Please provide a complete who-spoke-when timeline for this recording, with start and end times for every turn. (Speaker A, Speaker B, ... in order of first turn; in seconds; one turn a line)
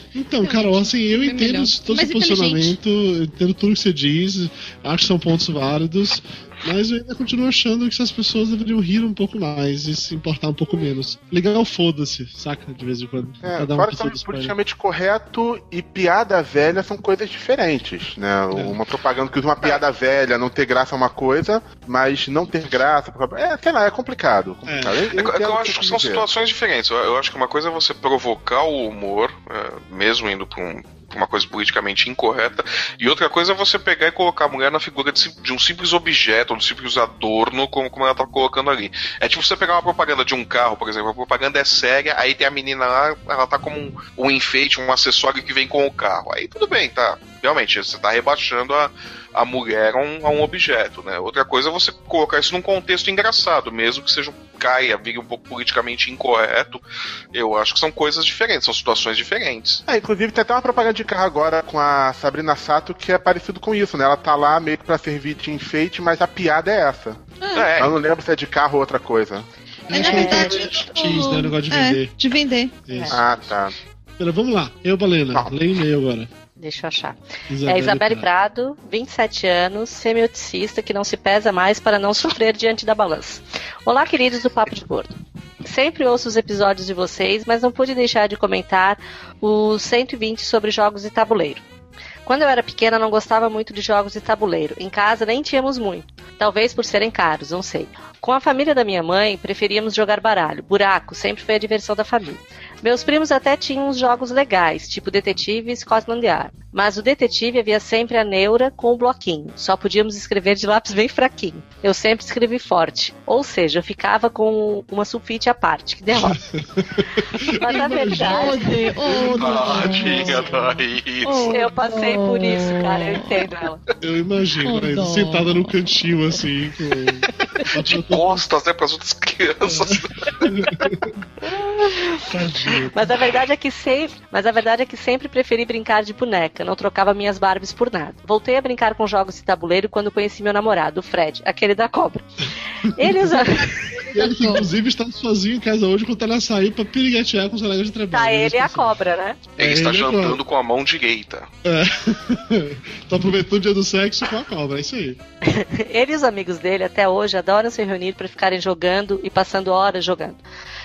Speaker A: 0.1-14.5
Speaker B: 0.4-2.8
Speaker C: 13.4-26.2
Speaker A: 18.5-18.8
Speaker A: 24.6-25.1
Speaker D: 25.1-56.8
Speaker D: 57.3-59.8
Speaker C: 59.9-67.2
Speaker B: 67.4-67.7
Speaker D: 67.5-68.0
Speaker C: 67.8-69.5
Speaker A: 69.9-72.1
Speaker B: 69.9-72.7
Speaker C: 70.0-70.4
Speaker A: 72.9-73.2
Speaker E: 72.9-73.2
Speaker C: 73.1-73.7
Speaker A: 74.2-76.3
Speaker E: 76.6-85.1
Speaker A: 77.5-78.3
Speaker E: 85.6-91.6
Speaker E: 92.2-116.4
Speaker A: 116.2-120.8
Speaker E: 117.5-118.7
Speaker B: 118.0-120.4
Speaker D: 119.4-121.5
Speaker B: 121.2-123.3
Speaker E: 121.4-123.8
Speaker A: 124.0-128.4
Speaker B: 124.6-125.7
Speaker D: 127.9-130.5
Speaker A: 129.7-131.1
Speaker E: 131.4-132.2
Speaker A: 132.3-133.1
Speaker E: 132.9-142.2
Speaker E: 142.8-143.8
Speaker B: 143.9-144.7
Speaker A: 144.0-148.9
Speaker E: 148.1-149.4
Speaker D: 149.6-151.5
Speaker A: 149.6-150.4
Speaker A: 151.6-155.2
Speaker E: 155.4-160.4